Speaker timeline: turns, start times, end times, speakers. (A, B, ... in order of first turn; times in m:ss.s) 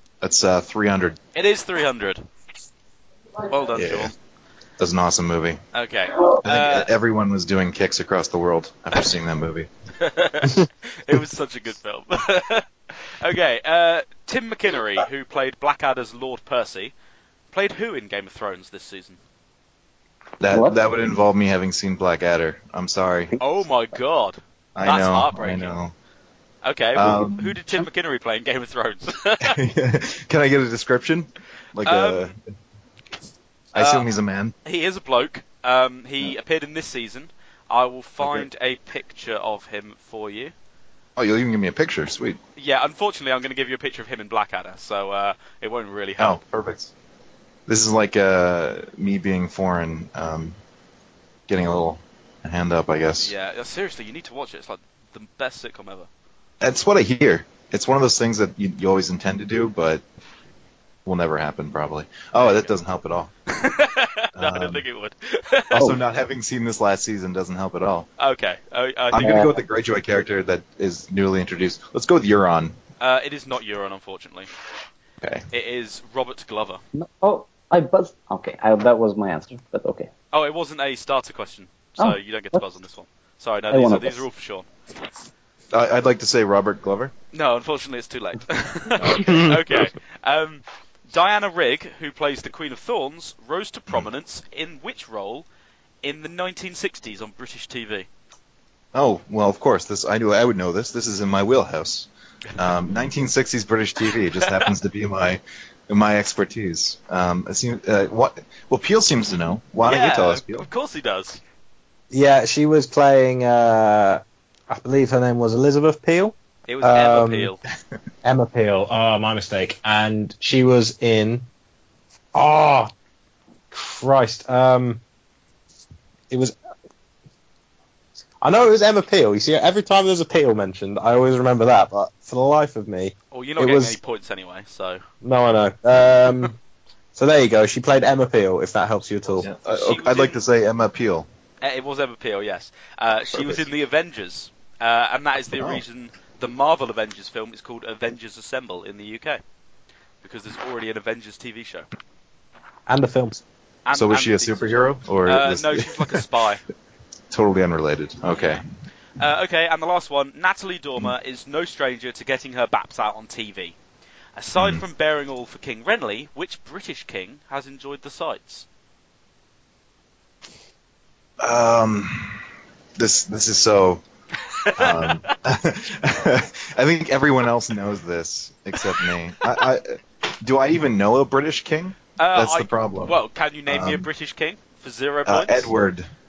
0:00.2-0:01.2 A
0:01.3-0:02.2 B
0:03.5-0:04.1 B
0:03.8-0:04.1 A
0:04.8-0:05.6 A
0:05.7-0:06.9 B
0:06.4-0:09.7 A
0:10.0-0:12.7 B
0:13.2-0:16.9 B
0:17.5-0:19.2 B
0:20.4-0:23.4 A
0:20.5-0:20.8 C
0:23.4-0:25.8 B
0:24.7-0:25.9 A
0:26.6-0:29.6 B
0:26.9-0:27.5 A
0:29.4-0:32.5 A
0:31.8-0:32.3 B
0:33.7-0:34.5 A
0:33.7-0:34.1 B
0:34.6-0:40.5 B
0:38.2-0:38.5 A
0:41.2-0:42.4 A
0:42.6-0:46.4 B
0:46.2-0:46.9 A
0:47.7-0:50.6 A
0:51.5-0:53.3 A
0:53.2-0:56.1 B
0:56.6-1:00.0 A
1:01.0-1:03.3 A
1:02.4-1:02.7 B
1:03.5-1:05.9 B
1:04.4-1:04.8 A
1:05.7-1:08.1 A
1:08.2-1:09.4 B
1:09.1-1:12.8 A
1:09.2-1:09.6 C
1:13.0-1:14.5 B
1:15.5-1:16.8 B
1:16.9-1:20.1 C
1:20.3-1:24.7 B
1:22.0-1:22.6 C
1:23.7-1:24.2 C
1:25.7-1:27.1 A
1:27.3-1:35.5 B
1:29.0-1:29.4 A
1:36.0-1:38.1 B
1:38.9-1:50.7 A
1:44.3-1:44.7 B
1:49.8-1:51.4 B
1:52.1-1:57.5 D
1:56.7-1:57.6 B
1:58.2-2:01.5 D
2:02.3-2:02.9 D
2:03.7-2:05.0 D
2:06.3-2:06.5 D
2:08.4-2:14.0 D
2:13.3-2:15.0 B
2:15.2-2:16.6 D
2:17.1-2:19.5 D
2:19.4-2:21.3 A
2:19.5-2:20.4 B
2:21.6-2:29.4 B
2:23.3-2:23.7 A
2:25.5-2:25.8 A
2:30.2-2:31.9 B
2:32.9-2:33.4 D
2:33.9-2:36.6 B
2:33.9-2:36.2 A
2:37.3-2:38.6 A
2:38.3-2:38.6 B
2:39.2-2:43.8 B
2:44.4-2:48.7 B
2:44.6-2:44.8 A
2:51.4-2:52.4 A
2:53.0-2:54.0 A
2:54.6-2:55.4 B
2:54.8-3:04.1 A
3:02.2-3:05.7 B
3:05.2-3:06.1 A